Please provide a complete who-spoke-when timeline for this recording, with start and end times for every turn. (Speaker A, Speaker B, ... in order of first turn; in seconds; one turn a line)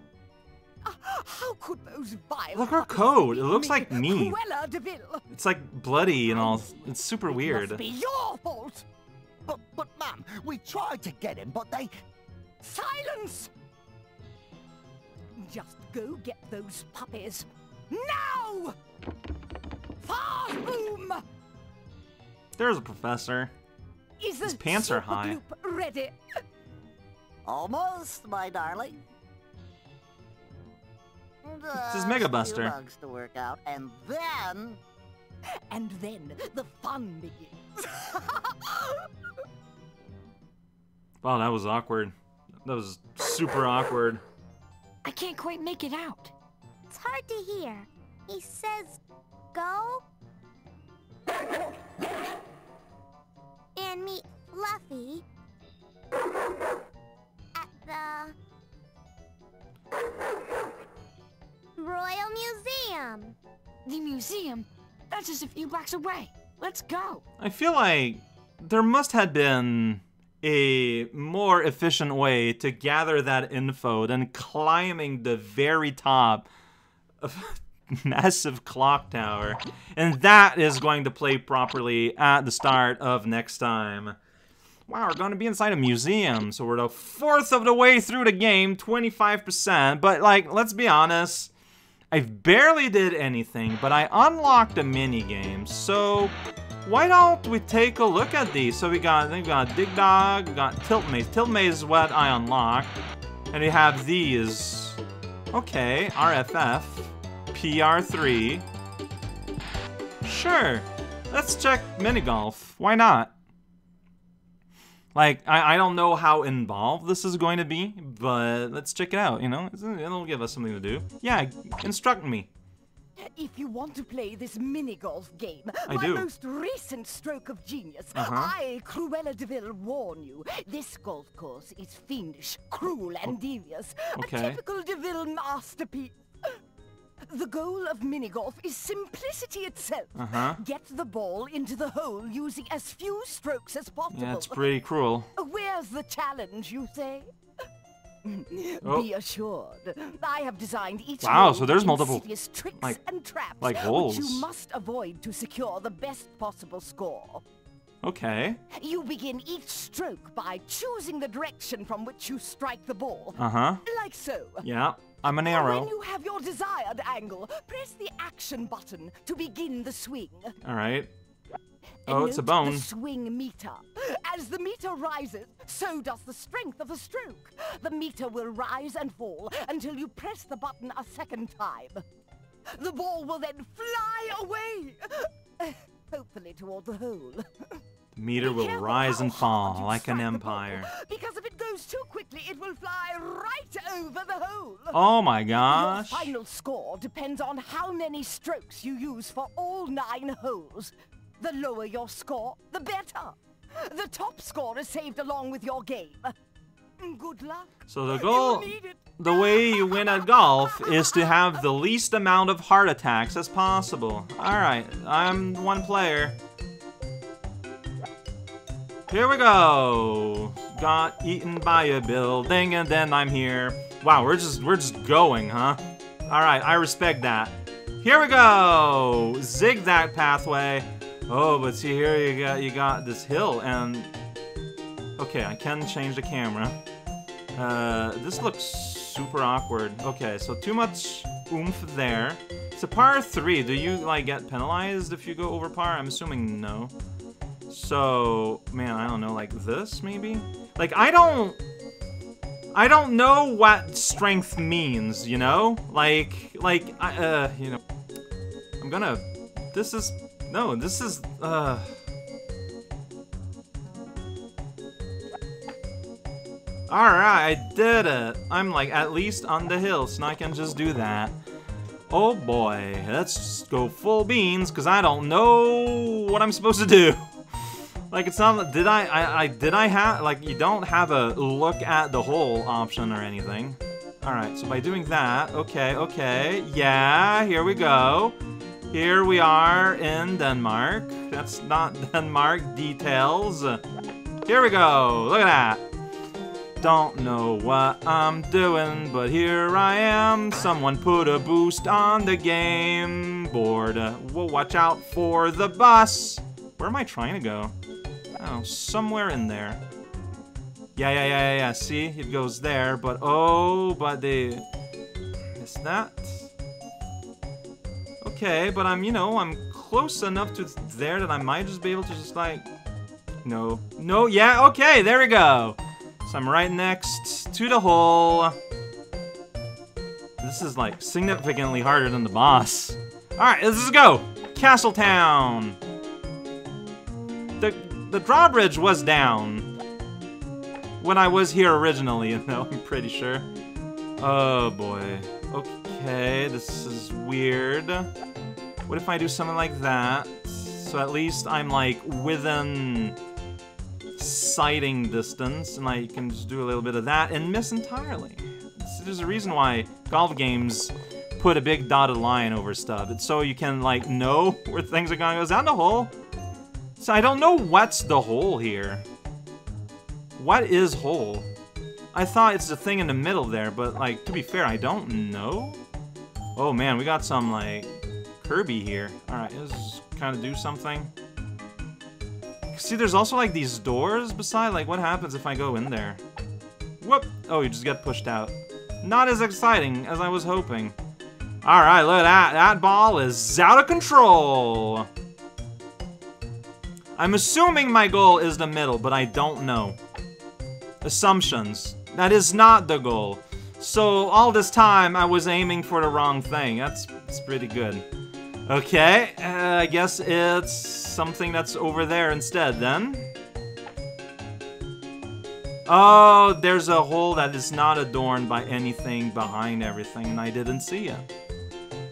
Speaker A: 0.8-5.2
Speaker B: 2.5-4.4
Speaker B: 5.3-7.8
Speaker A: 6.3-8.8
Speaker C: 9.5-11.9
Speaker A: 12.6-13.5
Speaker A: 15.3-18.8
Speaker A: 20.0-21.2
Speaker B: 22.6-23.5
Speaker A: 24.2-26.1
Speaker B: 24.4-25.4
Speaker C: 27.4-29.0
Speaker C: 31.4-34.8
Speaker B: 31.8-32.8
Speaker A: 35.7-39.1
Speaker B: 41.2-42.1
Speaker B: 42.6-44.2
Speaker D: 45.0-46.3
Speaker E: 46.9-49.0
Speaker E: 49.5-50.0
Speaker E: 53.8-55.2
Speaker E: 57.5-58.4
Speaker E: 61.8-63.4
Speaker D: 63.8-67.2
Speaker B: 67.4-76.5
Speaker B: 77.2-84.2
Speaker B: 84.9-91.5
Speaker B: 92.1-102.9
Speaker B: 103.5-105.0
Speaker B: 105.5-108.7
Speaker B: 110.2-113.3
Speaker B: 115.1-122.5
Speaker A: 123.2-136.6
Speaker B: 125.9-126.3
Speaker B: 128.1-128.5
Speaker B: 134.1-134.6
Speaker A: 137.3-144.6
Speaker B: 140.1-140.6
Speaker E: 142.4-143.2
Speaker B: 144.1-145.3
Speaker A: 145.3-147.3
Speaker E: 145.5-146.0
Speaker A: 148.2-157.4
Speaker B: 148.8-149.1
Speaker B: 151.2-152.3
Speaker B: 153.6-154.4
Speaker E: 154.8-157.1
Speaker B: 158.0-158.6
Speaker A: 158.7-164.6
Speaker E: 158.8-163.1
Speaker B: 163.4-163.8
Speaker B: 164.6-165.9
Speaker A: 165.6-170.5
Speaker E: 166.1-168.6
Speaker E: 169.3-170.2
Speaker B: 170.6-171.1
Speaker B: 172.1-172.9
Speaker A: 172.1-182.0
Speaker E: 174.4-177.0
Speaker E: 177.9-180.9
Speaker A: 182.8-187.8
Speaker B: 188.1-190.9
Speaker A: 188.4-195.0
Speaker B: 194.9-196.3
Speaker A: 195.6-206.3
Speaker A: 207.0-210.2
Speaker B: 207.9-216.4
Speaker B: 219.1-234.1
Speaker B: 235.2-236.8
Speaker B: 237.5-246.9
Speaker B: 247.7-251.6
Speaker B: 252.7-257.8
Speaker B: 258.8-261.9
Speaker B: 266.9-271.4
Speaker B: 272.1-277.2
Speaker B: 278.1-288.4
Speaker B: 288.9-293.8
Speaker B: 294.4-295.9
Speaker B: 296.8-307.7
Speaker B: 308.4-309.8
Speaker B: 310.9-314.6
Speaker B: 315.6-316.5
Speaker B: 318.2-322.7
Speaker B: 323.4-328.6
Speaker B: 330.4-335.8
Speaker B: 337.6-339.7
Speaker B: 341.0-343.5
Speaker B: 344.2-348.1
Speaker B: 348.9-353.2
Speaker B: 354.2-366.1
Speaker B: 367.0-369.1
Speaker B: 370.4-371.5
Speaker B: 372.1-375.8
Speaker B: 376.6-381.1
Speaker B: 382.7-386.2
Speaker B: 387.0-390.9
Speaker B: 391.6-395.1
Speaker B: 397.2-400.0
Speaker B: 401.0-408.1
Speaker B: 408.7-413.3
Speaker B: 415.9-421.3